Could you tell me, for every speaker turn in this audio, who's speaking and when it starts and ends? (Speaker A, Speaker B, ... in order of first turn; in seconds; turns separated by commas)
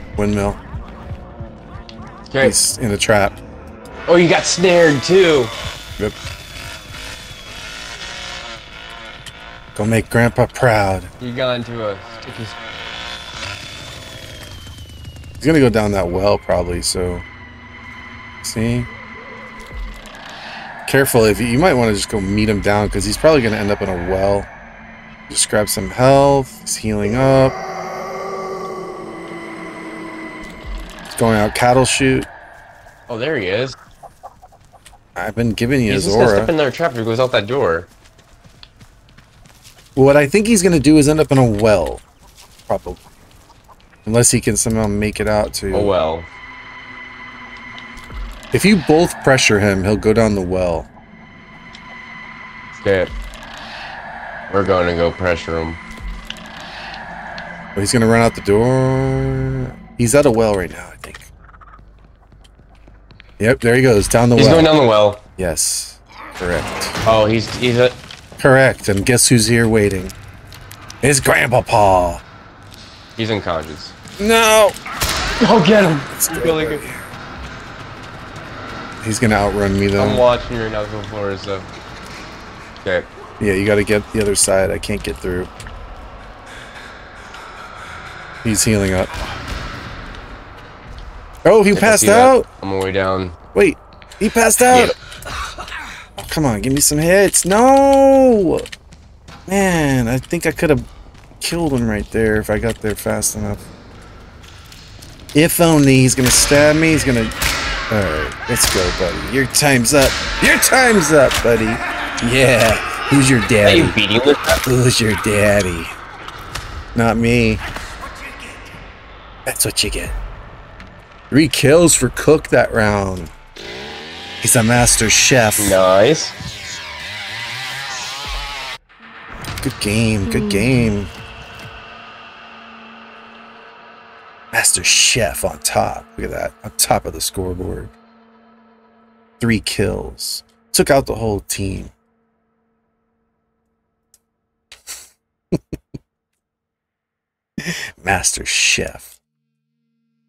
Speaker A: 0.2-0.6, Speaker B: 2.3-2.6, Speaker A: 2.4-3.4, Speaker B: 4.1-5.5, Speaker A: 9.8-11.1, Speaker B: 11.2-12.6, Speaker A: 15.4-17.2, Speaker A: 18.4-18.9, Speaker A: 20.9-24.5, Speaker A: 25.3-27.6, Speaker A: 31.1-32.3, Speaker B: 33.1-33.8, Speaker A: 35.2-36.5, Speaker B: 35.9-37.9, Speaker A: 40.0-42.0, Speaker A: 42.7-43.0, Speaker A: 44.1-45.9, Speaker B: 45.7-46.3, Speaker A: 48.5-50.9, Speaker B: 52.8-53.1, Speaker B: 54.5-55.8, Speaker A: 57.8-61.3, Speaker A: 63.4-64.8, Speaker B: 64.4-65.2, Speaker A: 65.4-67.0, Speaker B: 67.0-68.0, Speaker A: 68.4-70.2, Speaker A: 71.0-72.2, Speaker B: 73.2-73.9, Speaker A: 74.2-74.8, Speaker B: 75.4-76.8, Speaker A: 76.1-77.0, Speaker A: 79.0-80.3, Speaker B: 80.0-81.7, Speaker A: 83.4-85.5, Speaker A: 88.4-89.1, Speaker A: 91.4-92.5, Speaker B: 91.7-93.4, Speaker A: 93.5-95.0, Speaker B: 94.7-95.0, Speaker A: 96.2-98.7, Speaker A: 99.5-100.9, Speaker A: 101.4-103.7, Speaker A: 105.3-107.3, Speaker A: 107.9-114.0, Speaker B: 113.6-114.6, Speaker A: 114.6-115.9, Speaker A: 117.0-117.6, Speaker A: 119.5-120.2, Speaker A: 121.3-123.3, Speaker A: 124.4-125.8, Speaker B: 125.6-126.3, Speaker A: 129.6-131.1, Speaker A: 134.5-137.9, Speaker A: 139.4-141.9, Speaker A: 147.6-149.2